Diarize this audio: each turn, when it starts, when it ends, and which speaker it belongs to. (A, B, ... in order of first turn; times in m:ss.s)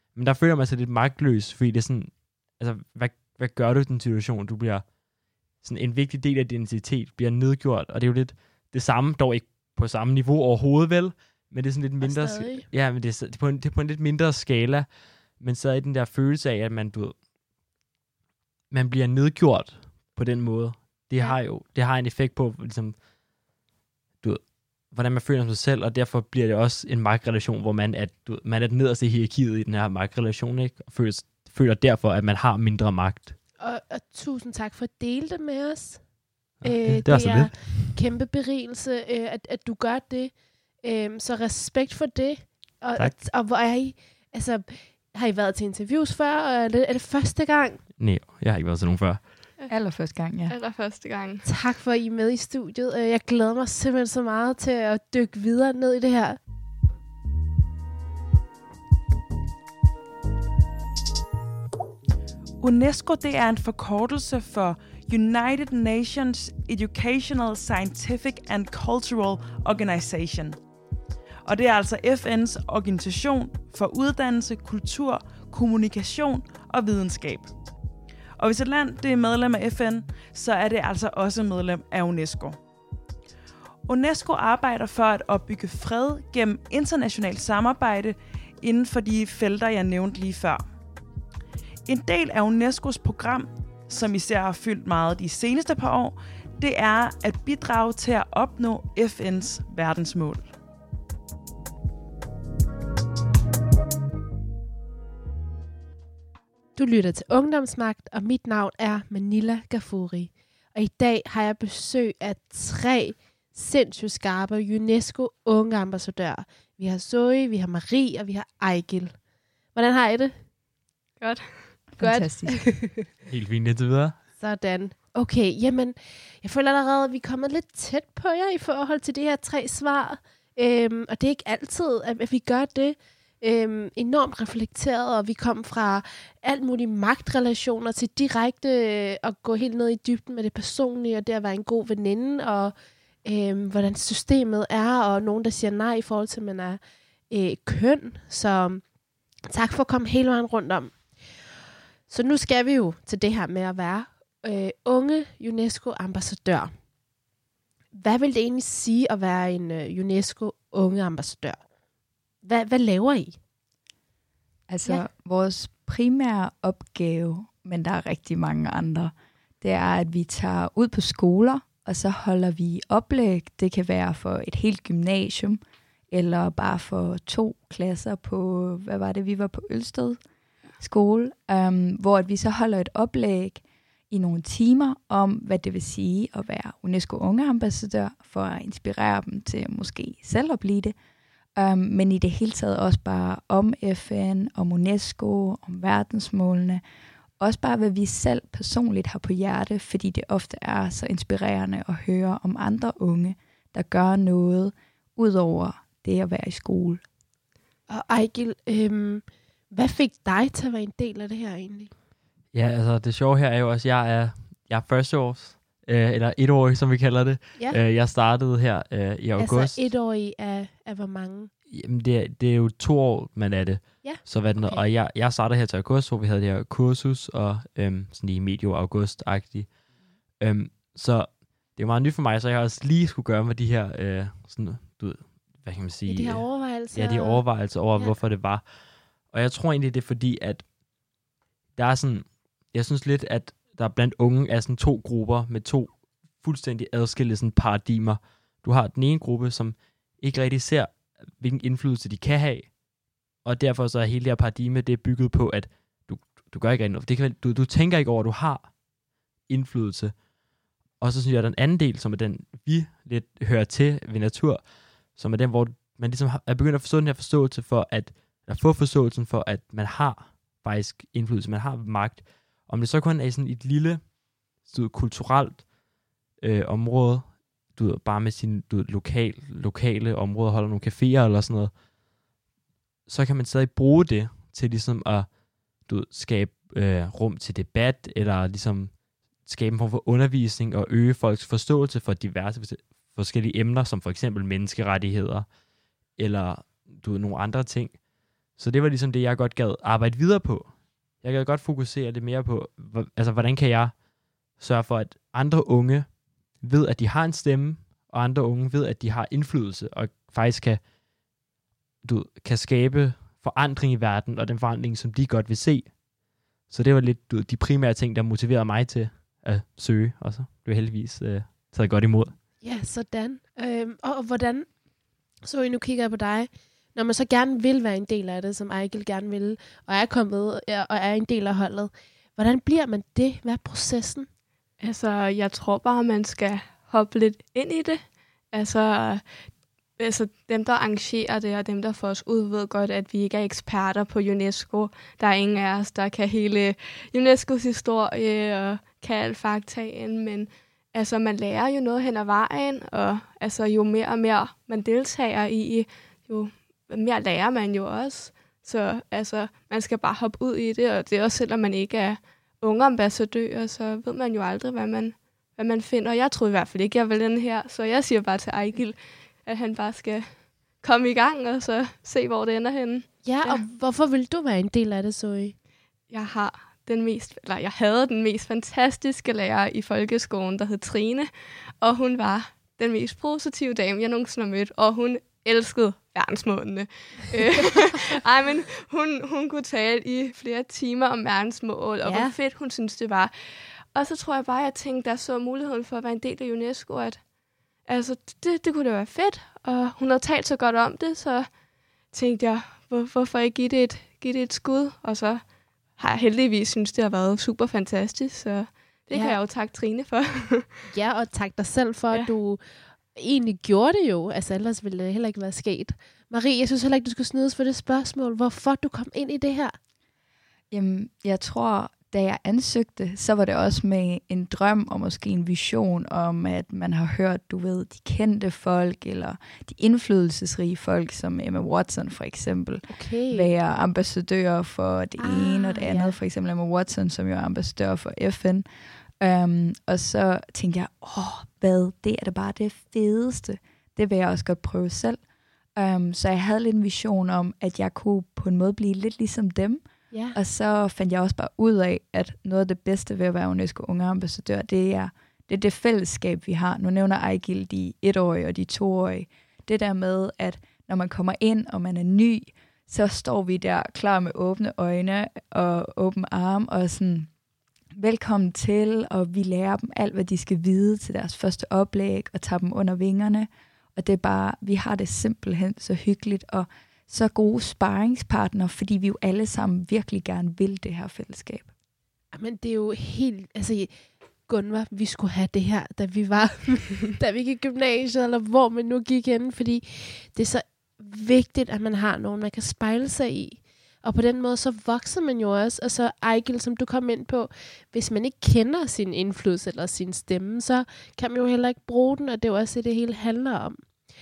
0:00.1-0:04.8 A
0:05.6-0:17.2 A
0:12.0-0:12.6 B
0:18.7-0:23.0 A
0:24.2-0:33.3 A
0:33.6-0:36.0 B
0:36.6-0:47.8 B
0:36.6-0:37.9 A
0:48.0-0:49.2 A
0:49.7-0:50.6 C
0:50.5-0:51.5 D
0:51.4-0:56.4 B
1:02.6-1:10.6 E
1:11.4-1:17.5 E
1:18.4-1:22.6 E
1:23.8-1:30.6 E
1:31.9-1:40.5 E
1:46.8-1:59.2 B
1:59.7-2:00.4 B
2:01.2-2:01.8 D
2:02.0-2:02.7 C
2:02.0-2:03.1 B
2:03.2-2:04.2 A
2:04.4-2:28.8 B
2:29.5-2:31.0 B
2:32.1-2:36.7 B
2:37.9-2:41.6 B
2:42.4-2:43.4 B
2:44.7-2:55.6 C
2:56.1-3:00.2 C
3:00.8-3:11.0 C
3:11.5-3:16.8 C
3:17.4-3:27.0 C
3:27.9-3:31.9 B
3:32.5-3:39.8 A
3:39.4-3:41.5 B
3:41.7-3:49.7 A
3:44.0-3:44.8 B
3:50.4-3:58.6 A
3:56.0-3:57.4 B
3:59.3-4:00.7 A
4:01.8-4:12.7 A
4:13.4-4:18.7 A
4:19.5-4:20.2 A
4:21.0-4:35.7 A
4:36.4-4:41.7 A
4:43.1-4:45.3 A
4:45.8-4:55.5 A
4:56.2-4:58.0 A
4:58.6-5:03.9 A
5:04.6-5:10.8 A
5:12.0-5:15.9 A
5:16.7-5:22.3 A
5:22.6-5:24.7 B
5:25.4-5:34.3 B
5:34.8-6:13.6 D
6:13.2-6:15.5 B
6:16.1-6:37.3 D
6:32.0-6:32.3 B
6:37.8-6:41.5 D
6:42.1-6:50.8 D
6:49.1-6:49.4 B
6:50.9-6:52.6 B
6:53.1-6:59.8 B
7:00.7-7:18.6 C
7:12.9-7:13.5 B
7:15.2-7:16.2 B
7:19.2-7:25.2 C
7:25.8-7:29.8 C
7:30.1-7:30.4 B
7:30.3-7:47.3 C
7:47.9-8:01.7 C
8:02.3-8:03.9 B
8:04.5-8:23.9 B